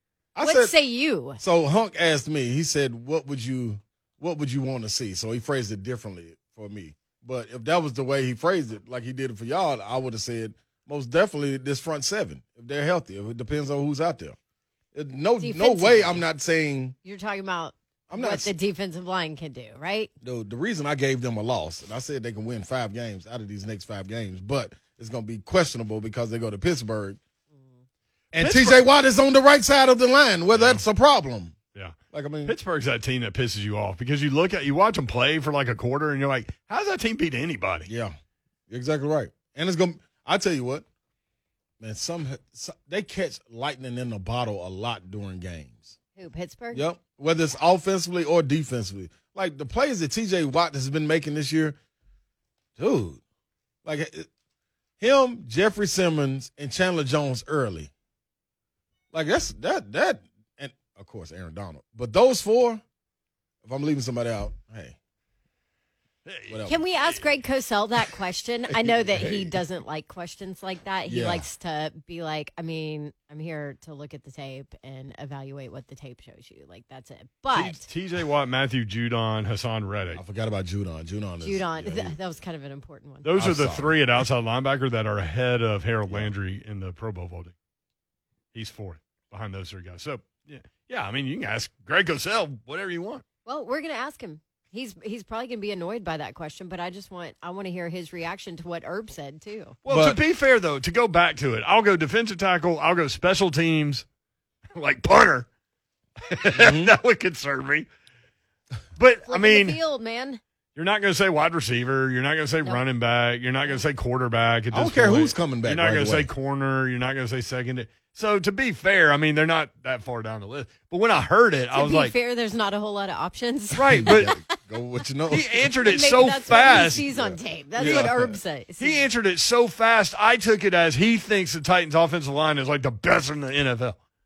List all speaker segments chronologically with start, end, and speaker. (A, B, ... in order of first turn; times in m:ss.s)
0:00.4-0:00.8 A
0:00.4-0:01.4 B
0:01.4-0:14.4 A
0:14.9-0:17.0 A
0:15.4-0:16.2 B
0:17.0-0:20.1 B
0:18.1-0:18.5 A
0:20.2-0:27.2 A
0:28.3-0:31.6 A
0:28.4-0:28.9 C
0:30.5-0:30.8 C
0:31.8-0:37.9 C
0:32.1-0:32.6 A
0:37.9-0:38.2 A
0:38.7-0:40.9 A
0:41.8-0:46.0 A
0:46.2-0:46.8 B
0:46.7-0:51.8 A
0:52.8-0:53.2 A
0:53.8-0:54.3 A
0:55.0-0:57.9 A
0:59.1-1:02.8 A
1:03.6-1:05.0 A
1:06.3-1:07.3 C
1:06.5-1:06.8 A
1:06.7-1:17.8 B
1:08.8-1:09.6 A
1:11.1-1:11.5 A
1:17.5-1:20.2 C
1:20.2-1:22.2 A
1:21.4-1:23.3 B
1:23.2-1:27.5 C
1:23.4-1:24.0 A
1:28.5-1:33.2 C
1:33.4-1:39.8 B
1:39.8-1:44.1 C
1:39.9-1:40.2 A
1:44.8-1:45.5 C
1:46.2-1:47.9 C
1:46.5-1:46.9 A
1:49.0-1:49.8 C
1:49.3-1:50.4 B
1:50.8-2:02.1 C
1:54.7-1:56.3 A
2:01.7-2:04.5 B
2:03.7-2:04.3 C
2:03.9-2:08.4 A
2:05.3-2:07.0 C
2:05.8-2:09.1 B
2:07.8-2:08.1 C
2:08.8-2:14.0 C